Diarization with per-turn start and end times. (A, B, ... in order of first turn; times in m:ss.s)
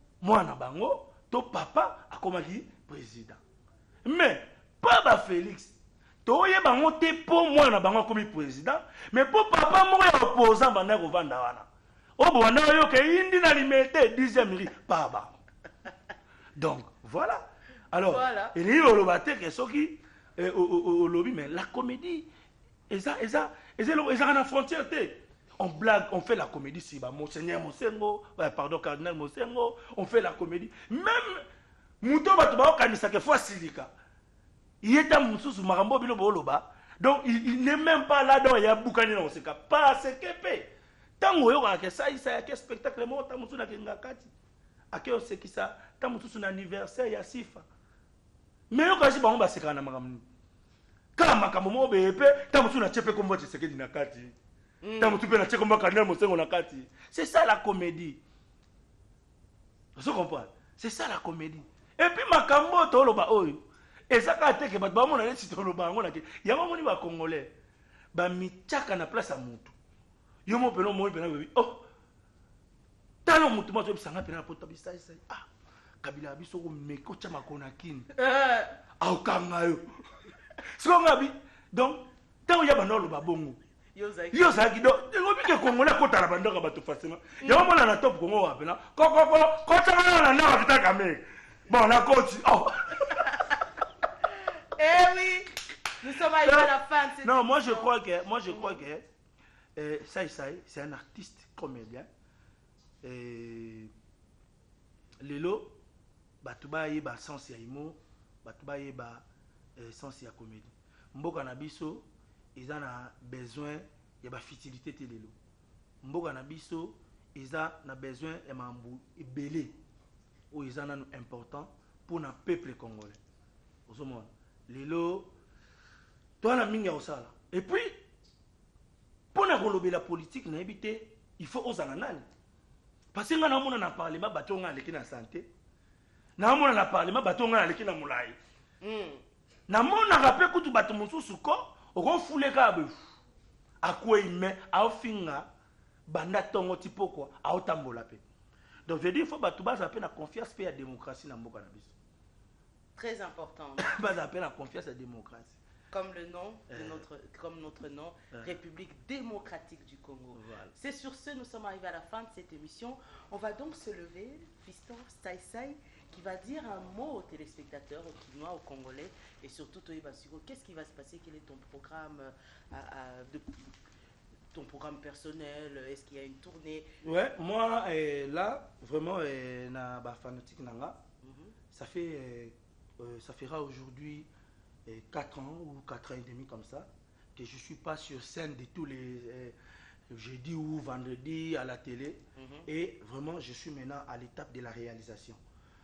0:00.2-0:03.4 A
0:04.0-0:11.7 A
0:12.2-0:15.4 A
0:16.6-0:22.3 A
0:18.1-0:18.6 B
0:22.9-0:31.4 A
0:32.0-0:33.9 A
0:34.8-0:44.3 A
0:44.9-0:47.7 A
0:48.7-0:50.3 A
0:51.2-0:54.4 A
0:54.8-0:55.2 B
0:55.0-0:58.2 A
1:00.0-1:07.5 A
1:08.1-1:09.7 A
1:10.5-1:11.8 A
1:13.2-1:15.5 A
1:16.0-1:18.1 A
1:18.1-1:18.8 B
1:19.0-1:19.9 A
1:20.6-1:23.6 A
1:23.9-1:25.7 B
1:24.3-1:33.4 A
1:27.4-1:27.7 B
1:33.2-1:33.6 B
1:34.2-1:37.9 B
1:36.4-1:39.1 A
1:38.5-1:38.8 B
1:39.8-1:42.1 A
1:43.0-1:43.9 A
1:45.2-1:45.8 A
1:46.4-1:49.2 A
1:49.8-1:55.4 A
1:56.0-1:59.7 A
2:00.5-2:03.2 A
2:03.9-2:05.3 A
2:06.4-2:08.0 A
2:09.3-2:12.3 A
2:13.1-2:15.5 A
2:16.4-2:18.4 A
2:18.8-2:19.2 B
2:19.7-2:23.0 A
2:23.8-2:25.5 A
2:26.1-2:28.2 A
2:28.9-2:32.0 A
2:33.0-2:34.0 B
2:33.8-2:35.6 A
2:35.9-2:53.7 B
2:36.7-2:37.0 A
2:40.3-2:40.7 A
2:54.5-2:56.9 B
2:57.0-3:01.0 A
3:01.2-3:01.5 B
3:01.7-3:04.3 A
3:04.9-3:09.6 A
3:10.1-3:15.4 A
3:12.4-3:12.7 B